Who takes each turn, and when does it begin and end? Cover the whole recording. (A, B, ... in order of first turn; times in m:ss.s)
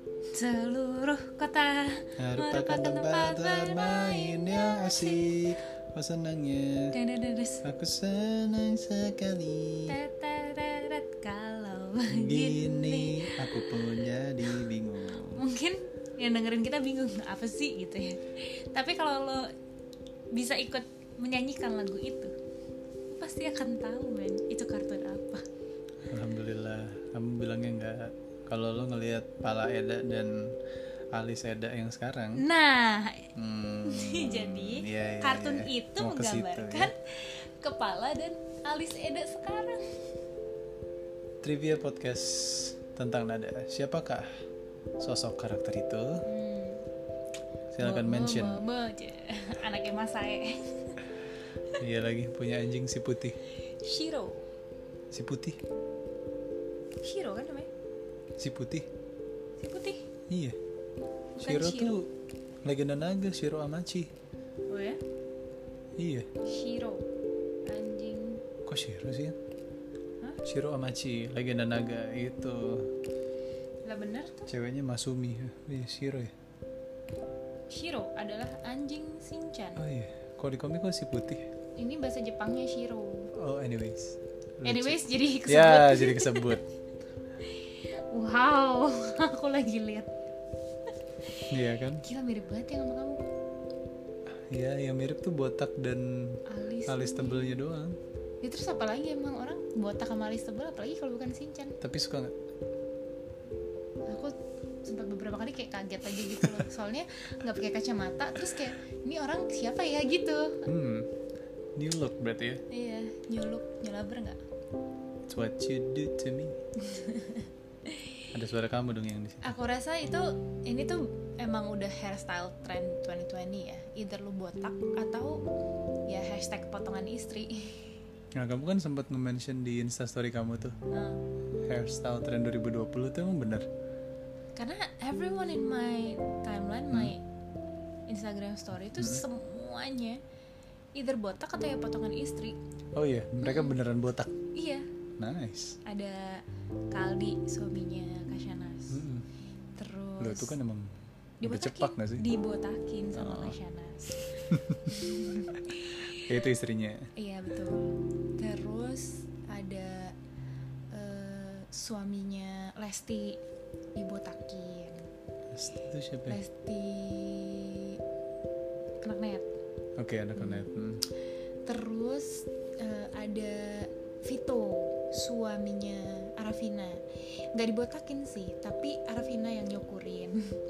0:00.3-0:05.6 A
0:02.2-0:07.0 B
0:06.9-0:07.6 A
0:07.6-0:10.0 B
0:09.9-0:14.7 A
0:12.1-0:15.4 B
0:15.2-0:19.4 A
0:20.3-0:22.3 A
0:23.1-0:25.4 A
0:26.0-0:30.6 B
0:31.1-0:32.4 B
0:32.4-0:33.3 A
0:33.3-0:36.9 B
0:33.8-0:39.8 A
0:41.4-0:44.3 B
0:45.0-0:46.2 B
0:46.2-0:46.8 A
0:47.7-0:48.6 B
0:47.8-0:51.1 A
0:51.8-0:53.4 B
0:53.7-0:54.5 A
0:55.1-0:55.6 B
0:57.0-0:57.7 A
0:58.4-0:58.9 B
0:59.6-1:00.0 A
1:00.3-1:00.6 B
1:01.4-1:02.1 B
1:01.4-1:02.0 A
1:02.6-1:04.1 B
1:04.7-1:05.0 A
1:06.0-1:06.3 B
1:06.4-1:07.0 A
1:07.6-1:08.4 A
1:08.6-1:09.4 B
1:10.4-1:12.9 B
1:13.8-1:14.5 A
1:14.5-1:16.3 B
1:17.7-1:19.8 A
1:19.8-1:21.4 B
1:21.8-1:23.3 A
1:23.3-1:26.6 B
1:24.6-1:26.6 A
1:27.4-1:30.1 A
1:31.5-1:32.0 B
1:32.0-1:33.2 A
1:34.5-1:38.0 B
1:36.4-1:37.4 A
1:38.4-1:41.8 A
1:41.8-1:42.3 B
1:44.1-1:44.3 A
1:44.8-1:50.6 A
1:50.6-1:51.1 B
1:51.8-1:52.6 B
1:52.7-1:54.4 A
1:55.3-1:56.6 B
1:56.8-1:58.2 A
1:58.3-1:59.5 B
1:59.4-2:05.4 A
2:06.0-2:08.0 A
2:08.4-2:10.8 B
2:10.9-2:11.2 A
2:11.6-2:13.7 B
2:14.6-2:17.2 A
2:16.9-2:17.1 B
2:18.1-2:20.2 A
2:19.0-2:19.2 B
2:20.9-2:22.6 A
2:22.9-2:24.3 B
2:23.4-2:23.7 A
2:24.5-2:24.8 A
2:25.2-2:25.8 B
2:25.8-2:29.0 A
2:28.9-2:29.2 B
2:29.8-2:30.5 A
2:30.2-2:32.2 B
2:31.4-2:36.3 A
2:33.1-2:33.6 B
2:34.5-2:34.8 B
2:36.1-2:37.1 B
2:37.2-2:40.1 A
2:40.9-2:43.4 A
2:43.9-2:45.1 A
2:45.5-2:46.4 B
2:46.3-2:48.0 A
2:49.0-2:49.4 A
2:50.0-2:51.0 B
2:50.4-2:50.7 A
2:51.6-3:00.4 A